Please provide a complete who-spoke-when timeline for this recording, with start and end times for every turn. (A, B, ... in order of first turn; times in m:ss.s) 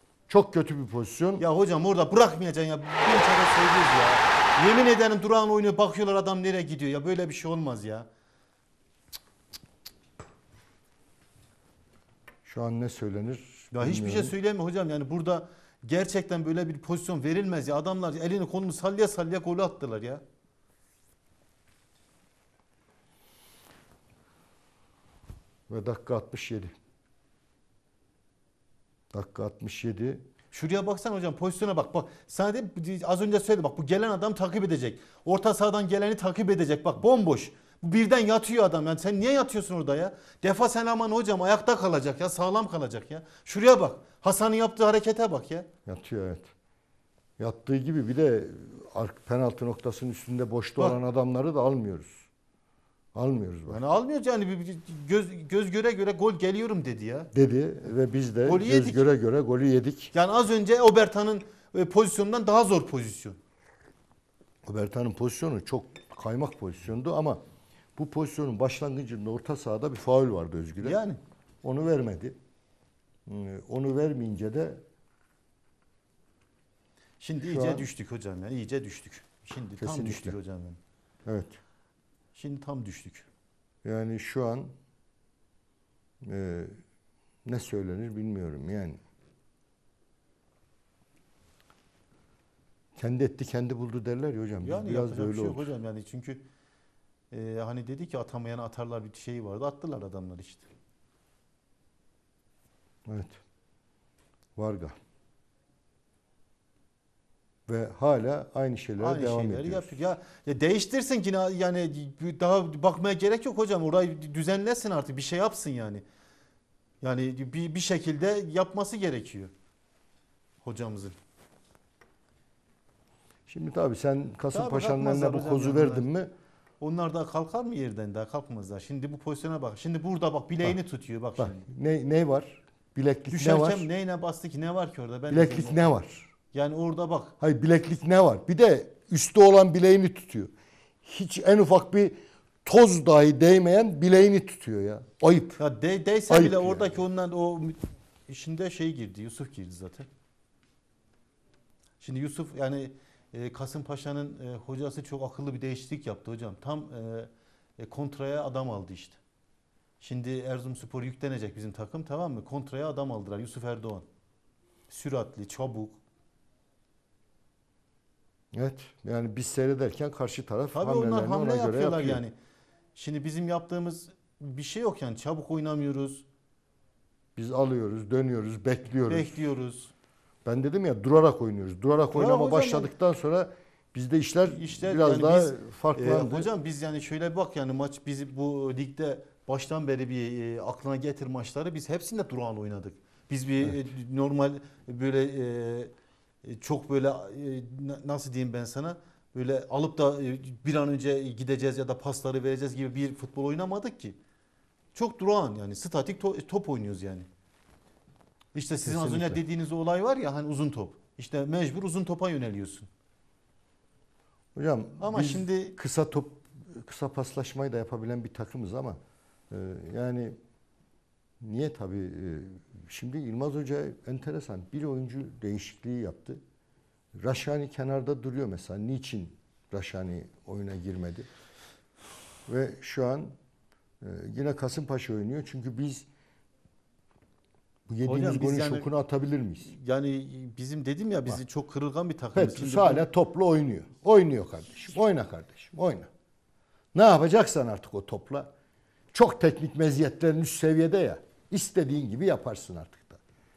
0:00.3-0:01.4 A
0:01.4-0:08.1 B
0:12.4-0:14.3 A
0:13.7-0:20.2 B
0:25.7-0:26.7 A
0:29.1-0:30.2 A
0:30.5-0:45.7 B
0:45.8-0:46.5 A
0:47.4-0:52.2 A
0:53.1-0:53.8 A
0:53.7-0:57.3 B
0:57.3-1:00.1 A
0:58.4-0:59.1 B
1:00.1-1:03.4 B
1:04.6-1:07.4 A
1:08.0-1:11.0 A
1:10.8-1:11.2 B
1:11.6-1:12.4 A
1:13.3-1:14.8 A
1:17.2-1:20.8 B
1:17.4-1:17.9 A
1:19.8-1:20.4 A
1:21.2-1:21.6 A
1:22.3-1:23.3 B
1:23.8-1:24.7 A
1:26.2-1:26.8 A
1:27.4-1:29.0 A
1:33.0-1:35.7 A
1:34.6-1:36.4 B
1:37.3-1:40.7 B
1:43.0-1:43.4 A
1:44.6-1:45.0 A
1:47.7-1:49.9 A
1:49.0-1:56.0 B
1:57.0-1:59.5 B
2:00.6-2:01.1 B
2:03.5-2:06.3 A
2:04.5-2:06.1 B
2:06.8-2:11.6 B
2:11.4-2:13.9 A
2:13.3-2:15.8 B
2:15.3-2:16.3 A
2:16.5-2:17.3 B
2:17.4-2:20.5 A
2:21.0-2:25.6 A
2:25.6-2:30.1 B
2:26.3-2:26.9 A
2:32.0-2:39.2 B
2:40.0-2:44.0 B
2:44.9-2:46.0 B
2:48.5-2:52.2 A
2:50.7-2:52.3 B
2:52.9-2:56.2 B
2:57.4-2:59.4 A
2:59.1-2:59.9 B
3:00.4-3:06.5 A
3:02.1-3:02.9 B
3:04.5-3:15.9 B
3:16.4-3:24.2 B
3:24.9-3:27.3 B
3:28.5-3:32.9 B
3:28.8-3:29.4 A
3:34.5-3:39.0 A
3:35.0-3:35.8 B
3:39.5-3:40.4 A
3:41.4-3:46.4 A
3:47.1-3:51.3 A
3:52.5-3:53.4 A
3:54.0-3:56.1 A
3:57.9-3:59.7 A
3:58.0-3:58.9 B
3:59.6-4:03.1 B
4:02.3-4:06.1 A
4:06.9-4:08.5 A
4:09.1-4:13.2 A